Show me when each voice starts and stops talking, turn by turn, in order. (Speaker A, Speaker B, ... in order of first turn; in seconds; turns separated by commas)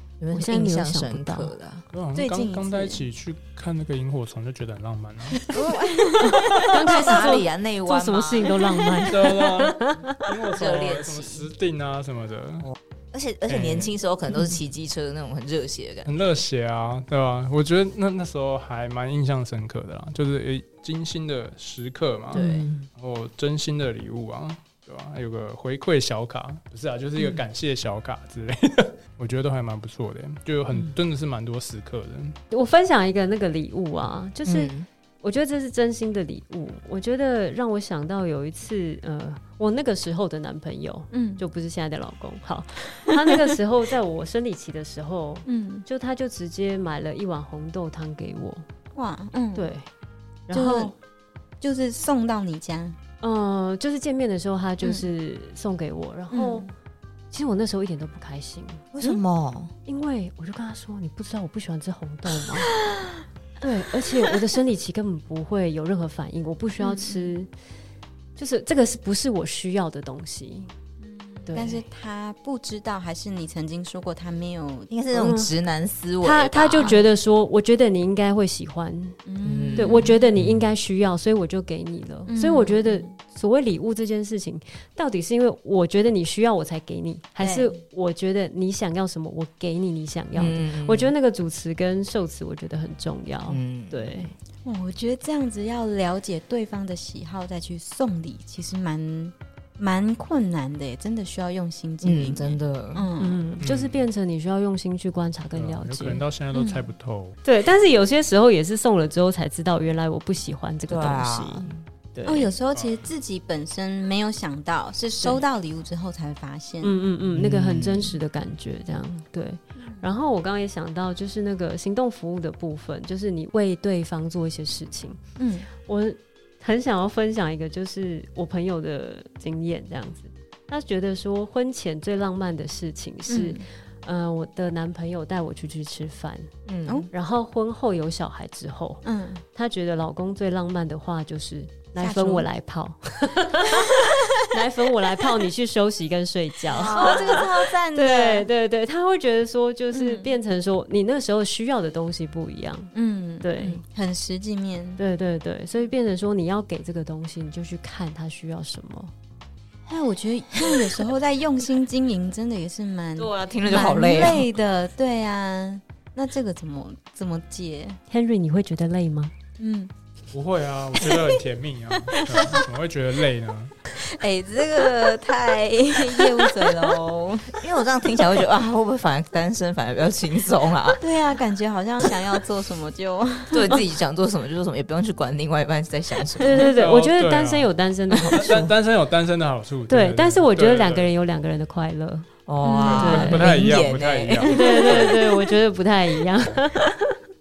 Speaker A: 0.2-1.9, Speaker B: 0.3-1.5, Speaker C: 1.9-5.5, Speaker D: 2.1-3.0, Speaker D: 5.5-7.1, Speaker B: 6.2-10.2, Speaker A: 6.3-8.6, Speaker C: 9.1-12.7, Speaker A: 10.5-11.5, Speaker A: 12.6-16.3, Speaker C: 13.5-13.9, Speaker C: 16.1-32.4, Speaker A: 22.3-22.9, Speaker B: 22.3-22.7, Speaker B: 32.5-48.6, Speaker A: 34.5-34.9, Speaker D: 41.1-41.4, Speaker D: 45.5-45.9, Speaker D: 49.0-49.7, Speaker B: 49.5-49.9, Speaker B: 50.5-50.9, Speaker D: 50.5-50.9, Speaker D: 51.6-53.0, Speaker B: 53.2-56.7, Speaker D: 56.3-56.7, Speaker B: 57.3-58.9, Speaker A: 58.9-59.7, Speaker B: 59.9-62.8, Speaker B: 63.6-67.5, Speaker D: 66.8-67.4, Speaker B: 68.4-70.7, Speaker D: 71.0-74.9, Speaker B: 71.5-71.8, Speaker A: 74.9-77.0, Speaker B: 75.1-75.5, Speaker B: 76.2-79.2, Speaker D: 79.3-80.2, Speaker A: 79.4-80.1, Speaker B: 79.8-94.3, Speaker D: 82.3-83.1, Speaker D: 87.4-87.8, Speaker A: 90.3-91.1, Speaker A: 93.5-94.3, Speaker D: 94.6-103.4, Speaker A: 102.0-103.1, Speaker B: 103.2-106.2, Speaker C: 103.6-104.0, Speaker C: 105.5-107.4, Speaker D: 106.5-106.9, Speaker B: 107.4-112.5, Speaker A: 110.9-111.8, Speaker D: 112.2-117.0, Speaker C: 112.7-113.0, Speaker B: 116.8-125.2, Speaker A: 117.3-118.2, Speaker D: 119.8-120.1, Speaker D: 125.4-125.7, Speaker B: 125.8-136.5, Speaker D: 133.3-133.6, Speaker A: 136.7-137.1, Speaker B: 137.1-139.0, Speaker D: 139.0-139.4, Speaker B: 139.6-153.8, Speaker D: 142.0-142.5, Speaker A: 146.7-147.5, Speaker D: 146.7-148.5, Speaker D: 149.9-150.3, Speaker D: 152.9-155.0, Speaker B: 155.0-159.1, Speaker D: 159.9-168.0, Speaker A: 163.2-164.5, Speaker B: 168.1-169.3, Speaker D: 169.6-169.9, Speaker C: 170.3-173.7, Speaker D: 171.0-171.3, Speaker D: 172.1-172.6, Speaker D: 173.9-177.6, Speaker A: 177.5-181.0, Speaker D: 181.0-183.8, Speaker A: 183.5-186.7, Speaker B: 186.4-188.5, Speaker C: 186.7-187.7, Speaker A: 188.2-188.7, Speaker C: 188.3-191.1, Speaker B: 189.9-192.3, Speaker A: 192.5-195.1, Speaker D: 192.6-193.3, Speaker C: 192.9-195.1, Speaker B: 192.9-193.5, Speaker B: 194.5-196.9